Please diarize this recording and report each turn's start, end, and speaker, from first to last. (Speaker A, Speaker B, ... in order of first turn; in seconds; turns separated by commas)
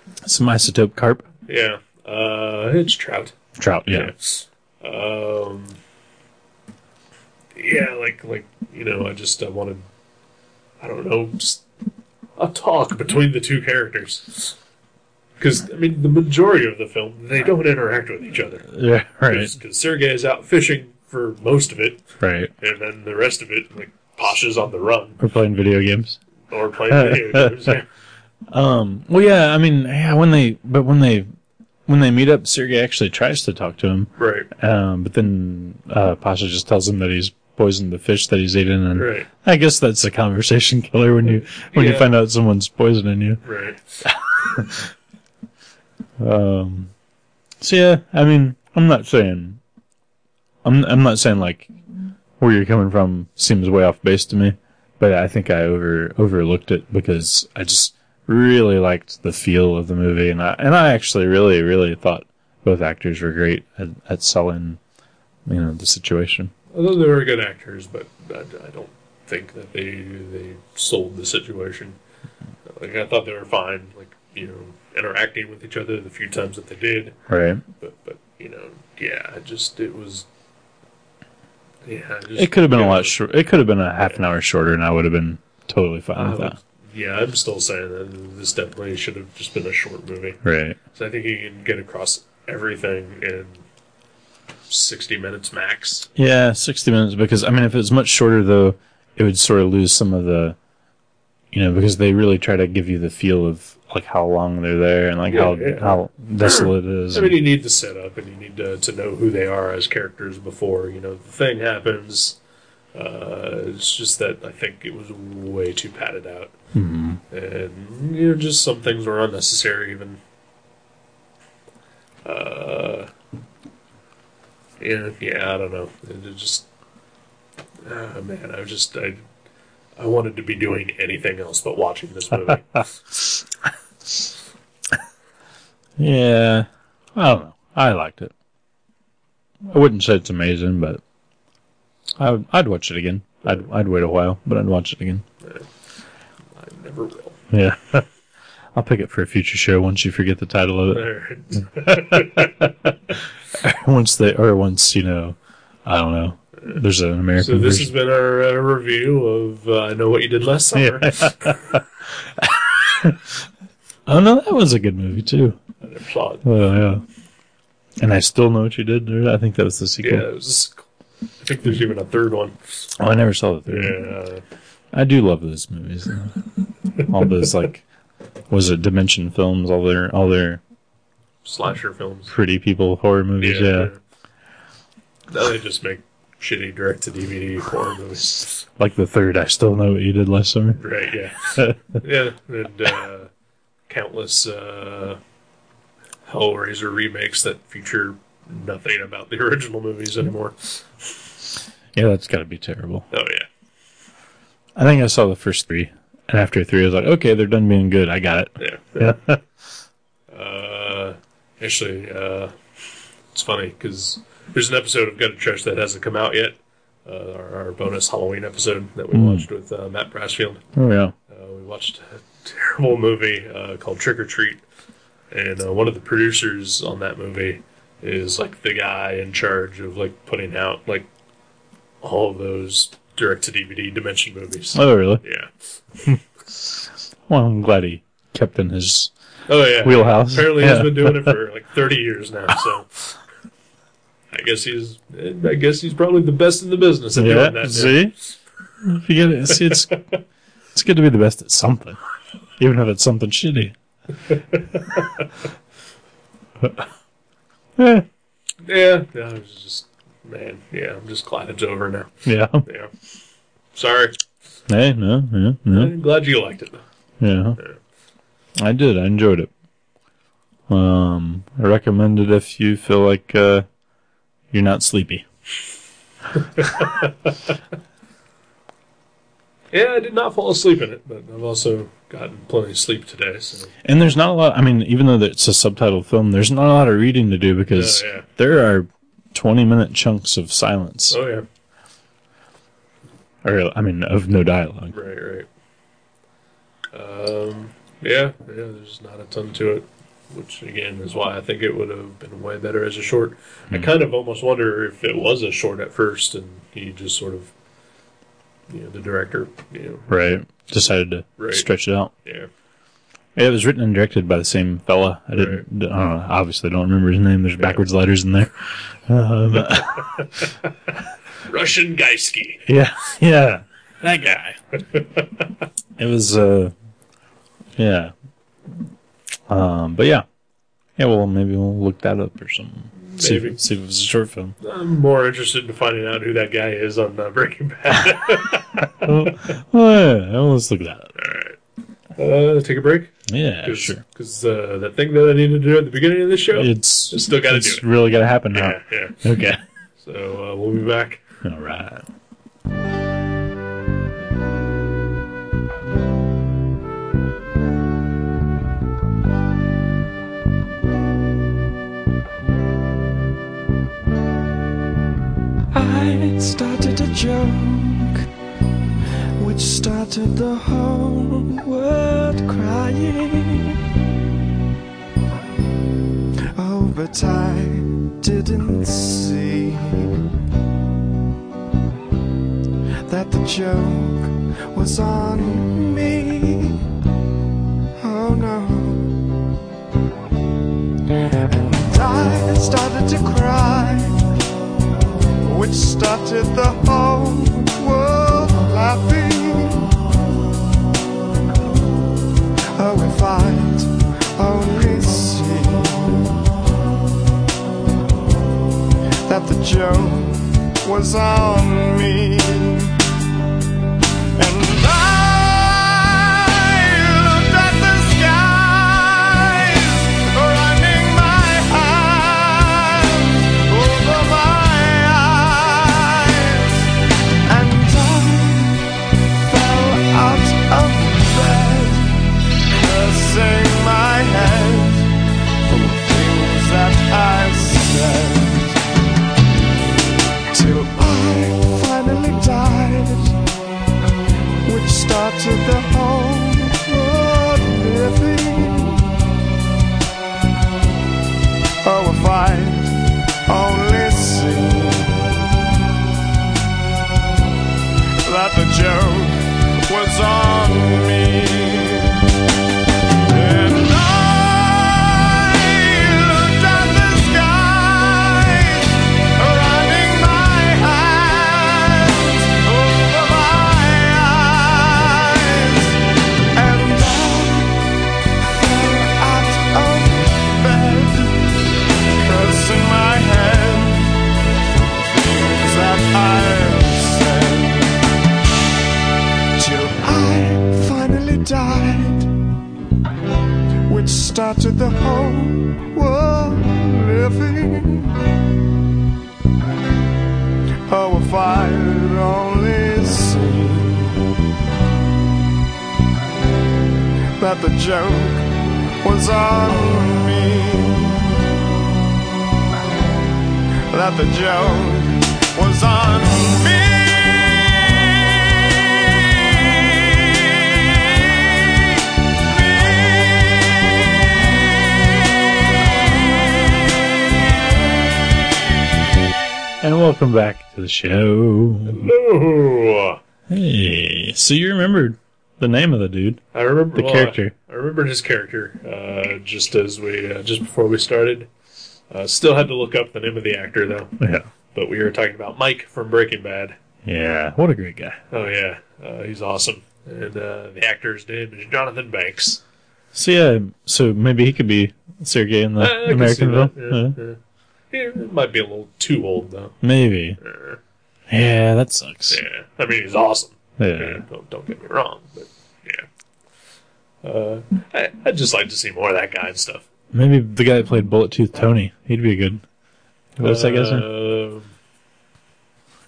Speaker A: 0.2-1.2, Speaker B: 1.5-3.3, Speaker A: 3.5-4.1, Speaker B: 3.9-5.8, Speaker B: 7.5-9.8, Speaker B: 10.8-11.6, Speaker B: 12.4-14.6, Speaker B: 15.4-18.7, Speaker A: 18.7-19.5, Speaker B: 19.3-22.0, Speaker A: 22.2-22.5, Speaker B: 22.6-25.2, Speaker A: 25.2-26.2, Speaker B: 26.5-27.9, Speaker A: 26.9-27.7, Speaker A: 28.5-31.3, Speaker A: 31.9-43.4, Speaker B: 34.2-34.5, Speaker B: 38.9-39.3, Speaker B: 41.3-42.1, Speaker B: 43.4-44.0, Speaker A: 44.0-44.9, Speaker A: 46.2-46.9, Speaker A: 47.6-49.6, Speaker A: 50.6-51.7, Speaker A: 52.4-64.8, Speaker A: 65.5-66.5, Speaker B: 66.7-72.0, Speaker B: 72.7-77.2, Speaker A: 77.3-77.6, Speaker B: 77.8-80.2, Speaker B: 81.8-83.2, Speaker A: 82.3-86.6, Speaker B: 86.1-90.4, Speaker A: 90.4-90.8, Speaker B: 90.9-93.6, Speaker B: 94.7-96.1, Speaker A: 96.2-100.6, Speaker A: 101.5-107.4, Speaker B: 105.3-112.4, Speaker B: 112.9-116.5, Speaker A: 116.7-117.2, Speaker B: 117.3-120.2, Speaker B: 122.2-123.1, Speaker B: 124.8-126.7, Speaker B: 127.8-129.2, Speaker B: 130.0-132.9, Speaker A: 136.0-138.3, Speaker A: 139.7-141.0, Speaker A: 142.2-145.2, Speaker B: 146.5-147.4, Speaker A: 147.5-148.1, Speaker A: 148.7-151.1, Speaker B: 150.9-152.9, Speaker A: 151.8-152.9, Speaker A: 153.5-157.9, Speaker B: 157.4-161.8, Speaker A: 160.7-161.8, Speaker A: 162.4-163.3, Speaker A: 164.1-165.6, Speaker B: 165.8-166.5, Speaker A: 166.4-167.0, Speaker A: 168.0-170.2, Speaker B: 170.0-170.8, Speaker B: 171.4-172.6, Speaker A: 173.0-174.0, Speaker B: 173.7-174.4, Speaker A: 174.9-176.3, Speaker A: 177.1-177.8, Speaker A: 178.5-180.6, Speaker B: 181.4-182.3, Speaker A: 182.3-183.9, Speaker B: 183.4-184.0, Speaker B: 185.3-188.6, Speaker A: 188.8-190.8, Speaker B: 190.8-193.3, Speaker A: 191.5-191.8, Speaker B: 193.9-195.2, Speaker B: 196.2-200.8, Speaker A: 201.9-203.1, Speaker B: 203.1-203.5, Speaker A: 204.8-209.4, Speaker B: 208.6-209.2, Speaker B: 210.3-212.5, Speaker B: 213.3-220.6, Speaker A: 219.1-219.4, Speaker A: 220.8-221.1, Speaker B: 221.3-224.6, Speaker B: 225.3-231.1, Speaker B: 232.0-235.5, Speaker A: 234.7-235.2, Speaker A: 237.3-239.1, Speaker B: 239.5-243.1, Speaker A: 239.8-241.4, Speaker B: 244.3-248.0, Speaker A: 247.2-248.1, Speaker A: 248.8-250.0, Speaker B: 249.6-250.2, Speaker A: 250.7-252.0, Speaker A: 252.6-253.7, Speaker B: 254.3-255.3, Speaker A: 257.8-258.1, Speaker B: 258.6-262.9, Speaker A: 262.2-262.6, Speaker B: 263.7-264.2, Speaker A: 264.7-265.9, Speaker B: 265.7-266.8, Speaker A: 267.2-267.6, Speaker A: 268.6-269.5, Speaker A: 270.7-273.6, Speaker A: 274.5-275.2, Speaker B: 276.4-277.3, Speaker B: 279.7-283.7, Speaker A: 283.8-291.2, Speaker B: 287.7-288.3, Speaker B: 291.1-291.4, Speaker A: 293.4-294.9, Speaker B: 294.9-295.5, Speaker B: 296.9-307.5, Speaker B: 308.7-310.1, Speaker A: 310.1-312.1, Speaker B: 311.4-311.7, Speaker B: 312.2-312.5, Speaker A: 313.4-320.3, Speaker B: 315.3-315.6, Speaker B: 320.2-320.5, Speaker B: 321.4-322.6, Speaker A: 322.6-324.6, Speaker B: 324.9-325.2, Speaker A: 326.0-326.7, Speaker A: 327.8-328.1, Speaker A: 329.5-330.2, Speaker A: 331.0-334.6, Speaker B: 332.9-333.6, Speaker B: 334.6-339.5, Speaker A: 339.0-341.1, Speaker B: 341.1-341.6, Speaker B: 342.2-347.9, Speaker A: 343.3-344.0, Speaker A: 346.5-349.6, Speaker B: 348.5-349.2, Speaker B: 350.0-351.2, Speaker A: 351.4-352.1, Speaker C: 365.7-368.3, Speaker C: 369.4-374.0, Speaker C: 376.5-380.2, Speaker C: 383.1-386.8, Speaker C: 388.0-389.3, Speaker C: 391.4-394.3, Speaker C: 395.4-399.9, Speaker C: 402.7-406.3, Speaker C: 409.2-413.0, Speaker C: 414.4-426.9, Speaker C: 427.4-432.1, Speaker C: 432.7-435.1, Speaker C: 435.6-438.8, Speaker C: 440.5-443.4, Speaker C: 444.6-449.1, Speaker C: 451.8-455.2, Speaker C: 458.2-462.3, Speaker C: 463.3-477.8, Speaker C: 478.4-481.5, Speaker C: 482.2-484.2, Speaker C: 484.9-488.0, Speaker C: 489.6-492.3, Speaker C: 493.9-498.3, Speaker C: 500.9-504.2, Speaker C: 507.4-511.3, Speaker C: 513.9-522.0, Speaker C: 522.5-525.3, Speaker A: 529.8-532.1, Speaker B: 531.9-533.2, Speaker A: 533.5-537.5, Speaker B: 536.5-541.5, Speaker B: 542.1-544.1, Speaker A: 544.2-544.5, Speaker B: 544.7-546.7, Speaker A: 547.0-548.2, Speaker B: 548.3-552.6, Speaker A: 553.1-557.2, Speaker B: 555.8-557.4, Speaker B: 557.9-559.8, Speaker A: 559.8-560.4, Speaker B: 560.4-560.8, Speaker A: 561.3-562.4, Speaker B: 562.3-566.1, Speaker A: 563.8-564.2, Speaker B: 567.2-569.9, Speaker A: 570.1-572.6, Speaker A: 573.4-574.1, Speaker B: 573.4-574.7